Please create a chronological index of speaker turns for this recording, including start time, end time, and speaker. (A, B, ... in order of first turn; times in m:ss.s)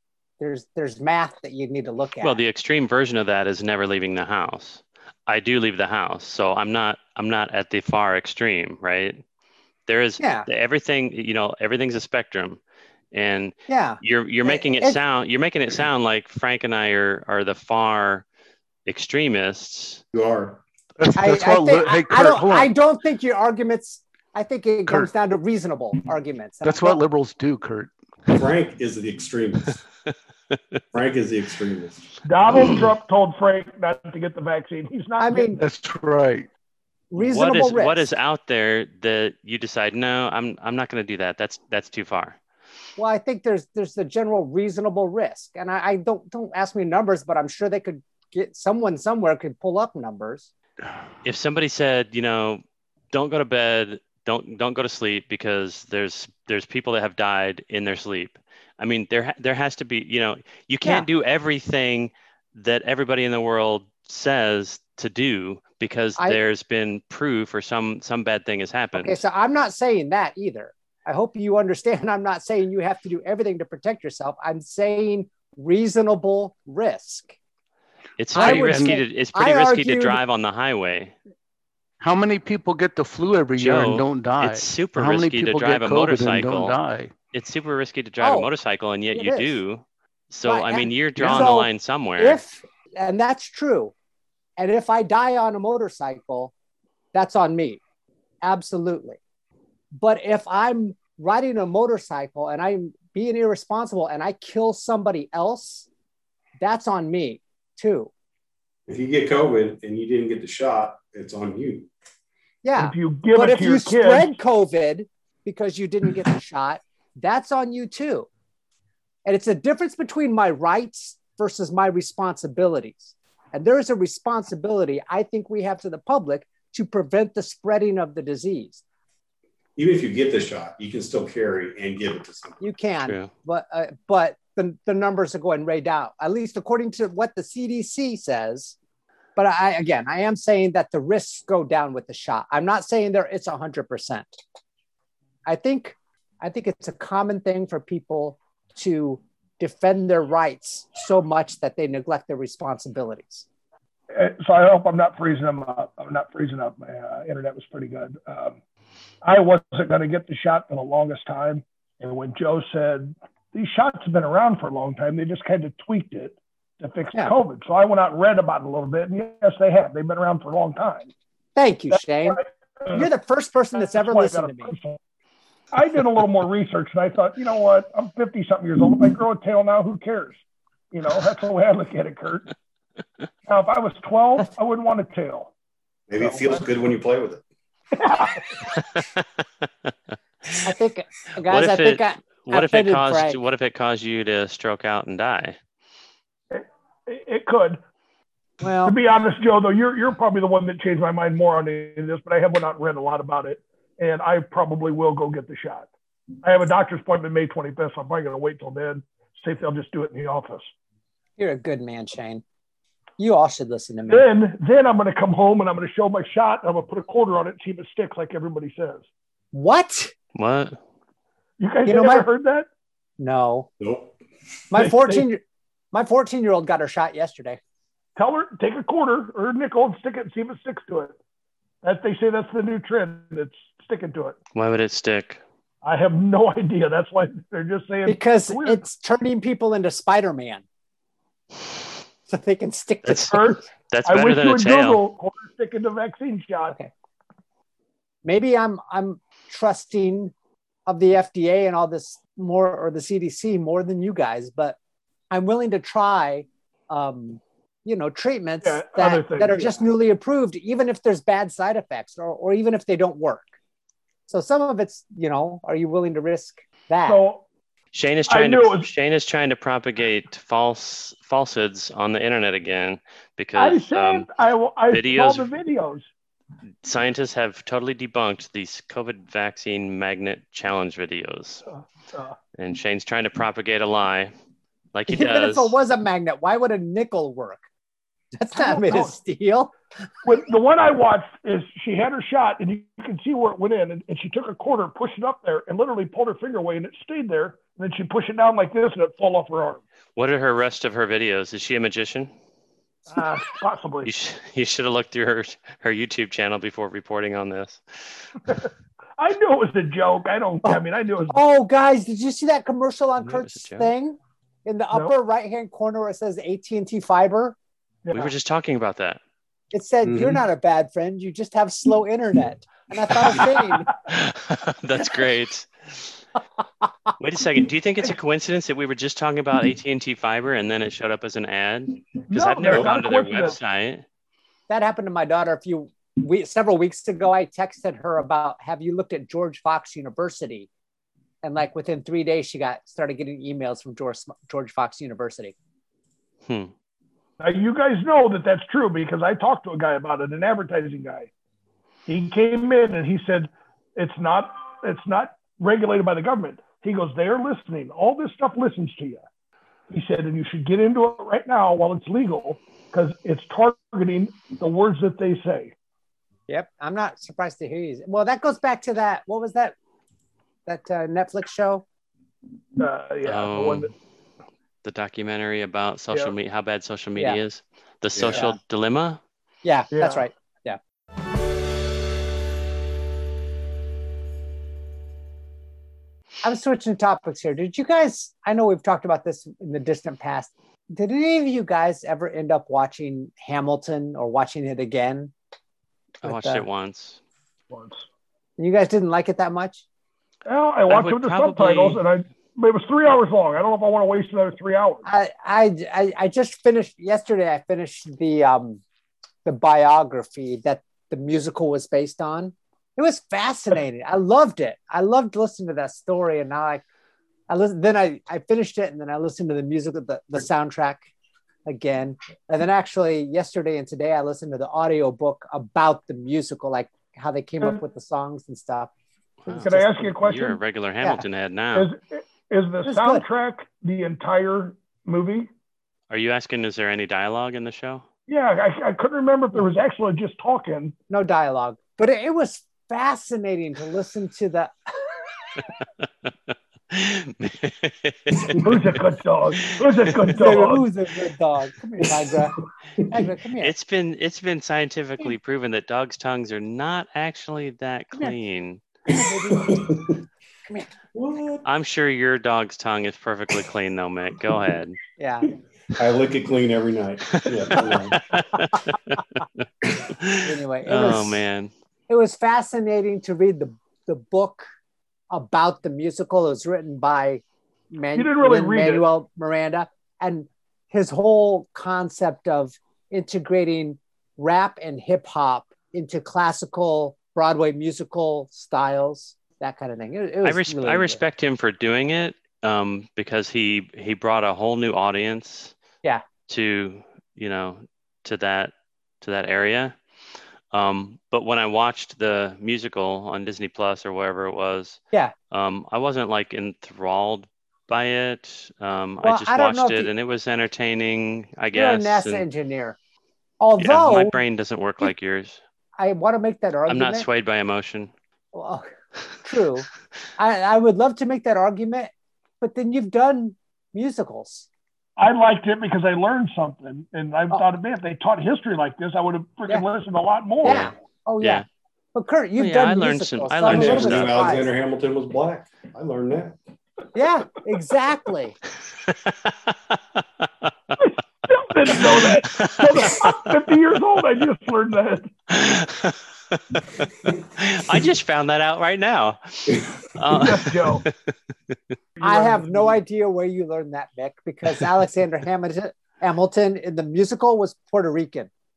0:00.4-0:02.4 A
0:02.2-0:09.2 B
0:09.9-0:12.6 B
0:10.2-0:10.5 A
0:13.1-0:18.2 B
0:13.7-0:15.0 A
0:18.8-0:20.0 B
0:20.1-0:20.6 C
0:21.0-0:22.7 D
0:21.1-0:27.0 A
0:24.8-0:25.1 D
0:26.6-0:27.9 D
0:28.3-0:29.8 C
0:30.9-0:32.0 C
0:32.2-0:35.5 E
0:32.5-0:32.8 B
0:35.2-0:35.6 A
0:35.6-0:36.5 D
0:37.1-0:38.1 A
0:37.2-0:42.4 B
0:43.0-0:50.5 A
0:51.2-1:09.2 B
1:08.9-1:17.3 A
1:18.2-1:21.1 B
1:18.3-1:20.2 A
1:18.4-1:19.0 D
1:22.0-1:27.1 D
1:23.6-1:26.8 B
1:27.3-1:32.4 B
1:28.2-1:28.5 A
1:29.1-1:29.6 A
1:30.4-1:33.9 A
1:31.2-1:31.5 D
1:34.6-1:36.5 A
1:37.1-1:37.8 A
1:38.4-1:39.2 A
1:40.0-1:45.9 A
1:46.6-1:48.1 A
1:48.9-1:51.9 C
1:52.6-1:58.3 A
1:52.8-1:54.4 E
1:59.2-2:08.8 A
2:09.8-2:12.6 C
2:12.6-2:18.7 A
2:13.0-2:13.3 B
2:19.4-2:24.4 A
2:25.4-2:33.4 A
2:34.1-2:38.6 E
2:39.2-2:51.1 E
2:51.6-2:54.7 A
2:51.9-2:53.1 E
2:53.7-2:55.0 E
2:55.7-3:00.4 E
3:00.9-3:02.5 E
3:03.4-3:05.5 E
3:06.1-3:07.4 C
3:06.2-3:06.7 E
3:08.0-3:08.5 E
3:10.6-3:13.4 A
3:11.4-3:15.6 B
3:16.5-3:17.8 E
3:18.6-3:19.0 A
3:18.8-3:25.9 E
3:26.4-3:30.7 E
3:31.4-3:32.4 A
3:33.2-3:34.3 A
3:34.1-3:39.0 E
3:39.5-3:40.1 A
3:40.4-3:40.8 B
3:41.6-3:42.7 E
3:41.8-3:42.2 A
3:43.2-3:43.7 A
3:43.8-3:44.1 C
3:44.7-3:47.6 A
3:44.8-3:45.2 E
3:48.2-3:51.1 E
3:51.8-3:54.4 E
3:54.5-3:55.4 B
3:55.8-3:58.8 E
3:58.0-4:00.6 A
4:02.3-4:03.6 A
4:03.0-4:05.0 B
4:03.3-4:06.8 E
4:08.2-4:10.3 A
4:10.9-4:14.8 A
4:15.3-4:23.5 A
4:18.6-4:19.8 E
4:24.3-4:27.2 A
4:27.0-4:27.4 E
4:27.9-4:34.3 B
4:28.3-4:28.9 E
4:33.6-4:36.1 E
4:34.9-4:35.5 B
4:36.8-4:41.6 B
4:41.7-4:42.4 E
4:42.6-4:44.3 B
4:44.9-4:45.8 B
4:45.1-4:47.6 A
4:48.3-4:49.7 A
4:48.5-4:49.2 E
4:50.2-4:59.8 E
5:00.2-5:02.3 B
5:03.1-5:04.1 E
5:04.0-5:08.3 B
5:08.5-5:11.4 E
5:10.6-5:17.6 A
5:13.2-5:13.9 B
5:18.0-5:18.3 E
5:18.1-5:19.2 B
5:19.7-5:23.9 A
5:20.0-5:20.4 C
5:23.4-5:23.7 E
5:24.0-5:26.2 B
5:27.2-5:34.0 B
5:32.3-5:33.6 E
5:32.6-5:32.9 C
5:34.7-5:40.7 A
5:41.4-5:45.5 A
5:46.4-5:46.7 B
5:47.4-5:51.3 E
5:52.1-5:59.2 E
5:59.9-6:05.7 E
6:06.5-6:09.7 A
6:10.6-6:11.8 A
6:12.8-6:13.9 E
6:13.2-6:13.9 B
6:14.8-6:19.2 B
6:18.1-6:18.5 C
6:19.6-6:20.8 A
6:19.9-6:20.2 E
6:26.4-6:35.3 A
6:36.2-6:37.2 B
6:36.2-6:36.6 A
6:37.7-6:38.0 E
6:38.6-6:39.8 A
6:40.4-6:45.0 E
6:40.9-6:42.0 B
6:45.0-6:48.8 A
6:49.4-6:56.8 A
6:57.5-7:01.1 A
7:01.6-7:08.9 A
7:09.4-7:11.9 B
7:09.5-7:10.2 A
7:09.6-7:10.6 E
7:11.7-7:15.5 E
7:12.8-7:13.2 A
7:16.1-7:18.0 B
7:18.3-7:20.9 E
7:21.1-7:24.7 A
7:26.0-7:28.6 B
7:28.4-7:28.7 C
7:28.6-7:30.8 E
7:30.3-7:33.7 A
7:33.0-7:33.3 C
7:33.6-7:38.8 B
7:39.1-7:40.2 C
7:39.1-7:40.0 A
7:41.1-7:41.6 C
7:41.6-7:45.0 B
7:45.2-7:45.6 A
7:46.0-7:48.2 C
7:47.4-7:51.7 B
7:50.4-7:51.4 A
7:52.1-7:54.6 A
7:55.3-8:11.2 A
7:58.1-7:59.0 E
8:10.4-8:15.8 B
8:16.5-8:20.0 B
8:20.7-8:25.0 B
8:25.5-8:32.4 B
8:29.2-8:30.1 A
8:31.7-8:33.0 A
8:33.6-8:34.4 A
8:33.8-8:35.6 B
8:36.0-8:37.3 A
8:36.9-8:38.1 B
8:38.5-8:38.9 A
8:39.4-8:39.9 A
8:40.4-8:44.6 A
8:45.2-8:50.9 E
8:50.6-8:54.7 A
8:50.6-8:50.9 C
8:51.4-8:51.6 B
8:52.6-8:54.5 B
8:53.7-8:56.6 C
8:57.1-8:58.6 A
8:59.0-9:01.0 B
9:01.0-9:05.3 E
9:01.8-9:03.4 B
9:05.5-9:11.8 B
9:10.3-9:11.0 E
9:12.2-9:13.0 E
9:12.2-9:18.5 A